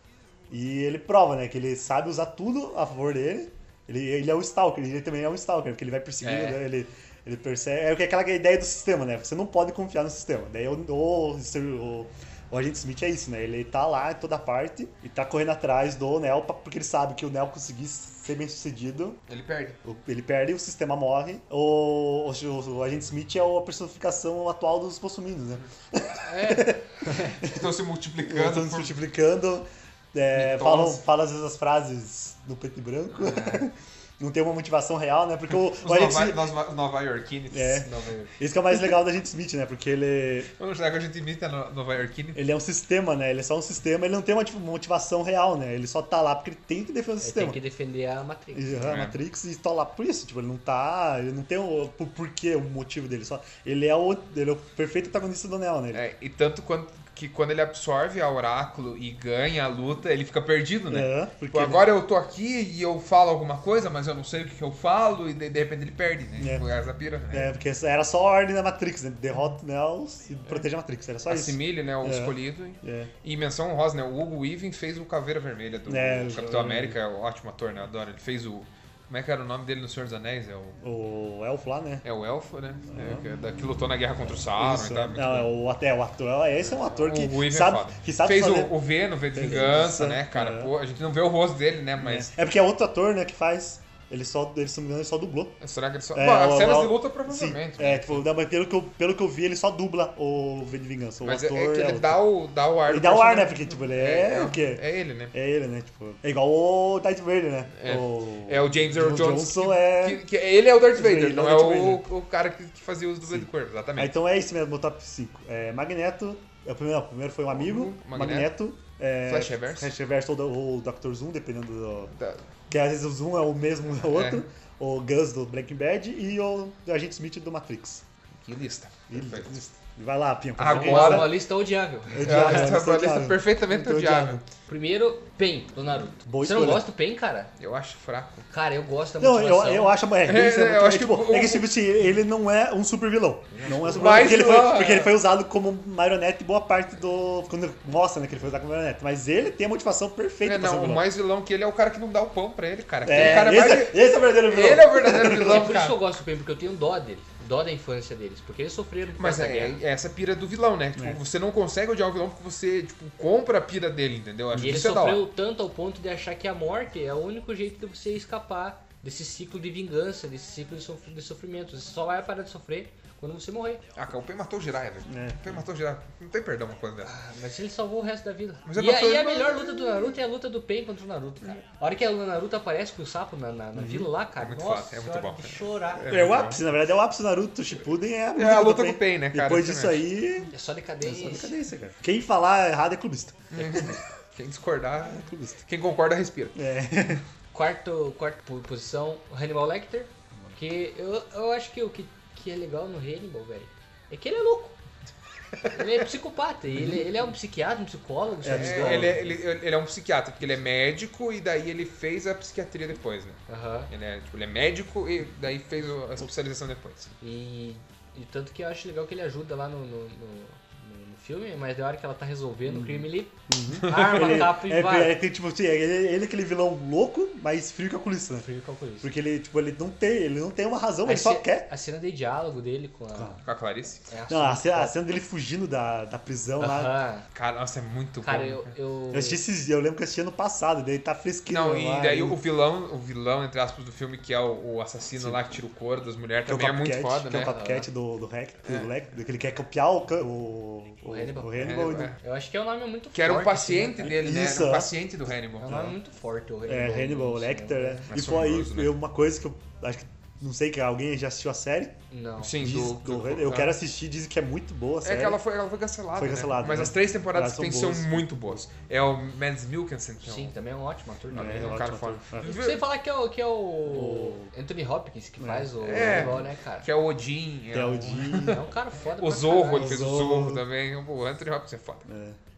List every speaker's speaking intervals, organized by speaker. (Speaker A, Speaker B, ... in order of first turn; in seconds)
Speaker A: 0.5-19.2, 19.8-27.6, 28.2-36.5, 37.5-40.5, 42.4-47.6, 48.5-56.0, 60.9-61.9, 67.3-73.1, 75.9-77.0, 80.8-82.0, 82.9-83.2, 84.3-88.7, 89.3-90.7, 92.0-95.6, 96.1-102.2, 102.9-110.2, 110.9-112.0, 113.2-122.1, 122.7-128.0, 129.1-131.4, 132.1-134.4, 136.3-136.9, 139.2-151.1, 153.0-155.7, 164.5-164.9, 175.1-175.6, 183.8-184.1, 186.1-193.9, 195.2-195.6, 196.6-197.2, 206.8-207.0, 208.4-209.2, 222.7-228.5, 229.0-231.7, 233.1-233.4, 234.3-236.9, 239.1-242.4, 246.4-252.1, 254.0-254.9, 255.7-255.9, 256.7-261.9, 262.6-265.4, 266.2-268.6, 271.3-272.5, 273.9-274.5, 275.4-276.4, 277.7-278.6, 279.7-280.6, 282.1-282.4
Speaker B: 6.2-6.6, 26.3-27.3, 37.8-38.3, 47.2-49.0, 130.7-132.7, 134.7-137.5, 138.5-140.0, 143.5-144.3, 153.1-153.6, 155.1-159.8, 164.6-173.8, 177.0-186.0, 190.5-191.6, 197.5-204.8, 205.7-209.3, 213.5-213.9, 217.2-225.2, 228.4-229.1, 231.1-233.4, 234.1-235.0, 236.6-237.2, 238.2-239.4, 247.5-247.9, 251.1-254.1, 255.6-258.1, 262.1-262.6, 270.2-271.8, 272.4-276.9, 278.4-280.0
Speaker C: 19.3-19.8, 27.4-28.9, 30.3-31.0, 33.2-33.6, 35.8-38.1, 40.6-42.4, 48.9-49.2, 55.9-67.5, 71.3-80.8, 82.0-85.5, 86.7-92.3, 95.6-98.2, 101.2-105.3, 107.8-114.2, 117.5-118.5, 119.2-119.9, 122.2-122.4, 124.1-124.5, 128.4-129.6, 130.6-131.4, 132.2-134.4, 137.6-138.5, 140.2-141.7, 143.9-145.2, 150.4-156.0, 159.2-165.3, 174.0-177.1, 178.7-180.1, 184.4-186.7, 188.3-190.1, 193.5-196.6, 208.5-217.2, 223.8-224.5, 233.4-234.0, 237.3-238.7, 241.5-247.5, 251.6-252.2, 253.1-255.8, 258.1-258.9, 262.4-263.8, 265.0-270.6, 271.4-272.9, 275.8-278.6, 279.2-282.1